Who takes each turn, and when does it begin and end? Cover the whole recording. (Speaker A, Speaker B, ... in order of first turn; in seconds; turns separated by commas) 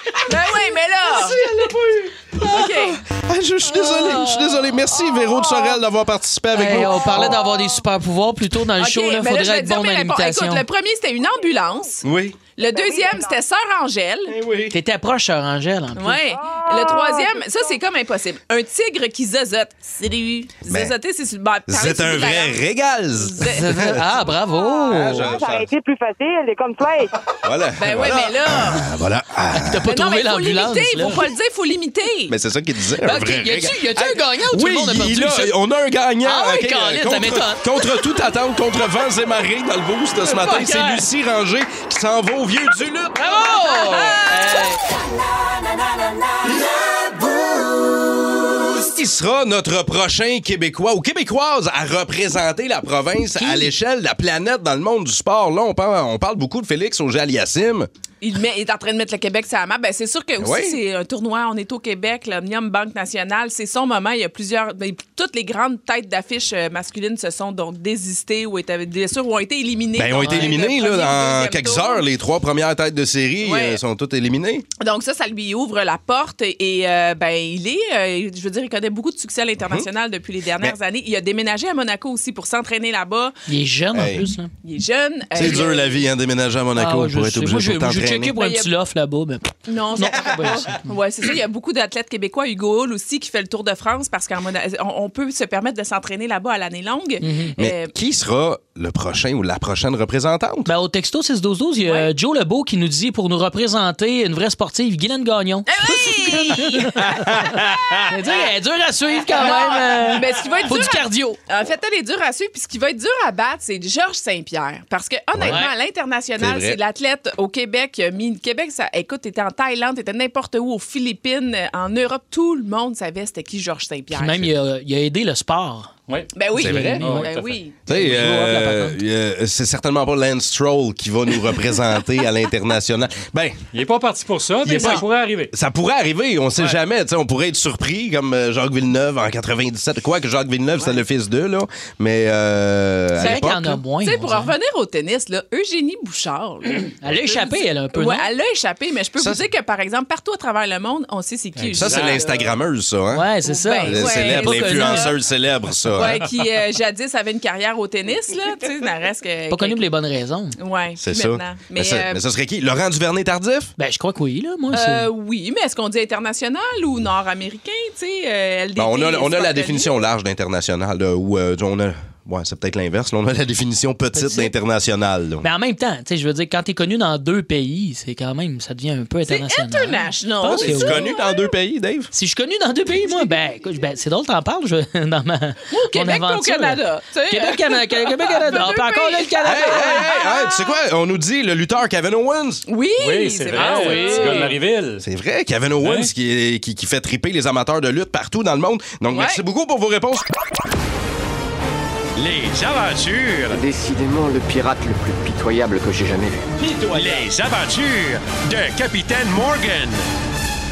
Speaker A: 0.2-1.4, Speaker B: 1.1-7.4, Speaker A: 2.4-3.0, Speaker A: 3.9-4.5, Speaker C: 6.5-10.6, Speaker A: 8.8-12.0, Speaker B: 12.0-12.4, Speaker A: 12.6-14.3, Speaker D: 12.6-13.4, Speaker B: 14.3-14.8, Speaker C: 14.7-16.2, Speaker A: 15.9-22.6, Speaker D: 16.3-17.8, Speaker B: 20.7-20.9, Speaker B: 21.7-24.0, Speaker A: 23.1-23.6, Speaker C: 23.5-25.3, Speaker D: 24.5-27.1, Speaker B: 24.9-25.7, Speaker B: 27.4-29.9, Speaker A: 27.8-28.9, Speaker C: 29.5-31.2, Speaker A: 29.8-32.4, Speaker B: 32.3-43.4, Speaker C: 33.0-35.5, Speaker C: 36.2-37.8, Speaker C: 40.2-41.0, Speaker C: 43.1-44.8, Speaker A: 43.8-44.6, Speaker B: 48.7-57.9, Speaker C: 53.4-53.7, Speaker A: 58.2-72.0, Speaker B: 60.4-60.8, Speaker B: 70.0-74.7, Speaker C: 70.2-70.5, Speaker A: 73.4-73.8, Speaker A: 74.8-83.3, Speaker B: 79.6-79.9, Speaker C: 83.5-84.5, Speaker B: 83.9-84.2, Speaker A: 84.6-86.0, Speaker B: 85.3-88.3, Speaker C: 86.8-90.9, Speaker A: 88.4-88.7, Speaker A: 89.7-97.9, Speaker C: 97.2-97.5, Speaker B: 97.6-100.7, Speaker C: 100.7-107.5, Speaker A: 105.7-106.9, Speaker B: 107.2-107.9, Speaker C: 108.1-111.4, Speaker A: 109.3-124.5, Speaker B: 115.3-115.6, Speaker C: 115.5-115.7, Speaker B: 116.4-116.8, Speaker C: 124.1-125.9, Speaker A: 126.3-127.8, Speaker C: 126.5-127.3, Speaker B: 126.5-127.1, Speaker E: 127.0-127.5, Speaker B: 127.9-133.6, Speaker C: 127.9-129.0, Speaker E: 133.7-135.5, Speaker B: 134.6-143.8, Speaker C: 143.2-144.5, Speaker A: 143.2-152.5, Speaker C: 147.0-148.3, Speaker B: 149.2-149.4, Speaker E: 151.6-152.3, Speaker B: 151.8-153.3, Speaker C: 153.1-155.1, Speaker A: 153.4-155.2, Speaker B: 153.8-156.2, Speaker A: 155.9-159.8, Speaker C: 159.5-160.6, Speaker A: 160.6-162.2, Speaker B: 161.0-163.7, Speaker C: 163.8-165.1, Speaker A: 164.7-169.9, Speaker B: 168.8-175.4, Speaker C: 174.1-174.5, Speaker C: 175.4-181.0, Speaker A: 179.2-181.5, Speaker B: 180.4-182.1, Speaker C: 182.1-190.1, Speaker A: 185.7-190.7, Speaker B: 189.4-192.6, Speaker A: 192.7-194.6, Speaker E: 193.0-195.0, Speaker C: 193.5-194.5, Speaker B: 195.0-200.2, Speaker E: 195.8-196.1, Speaker A: 199.1-199.4, Speaker F: 202.2-203.6, Speaker G: 203.5-206.4, Speaker B: 206.6-207.2, Speaker F: 206.9-210.1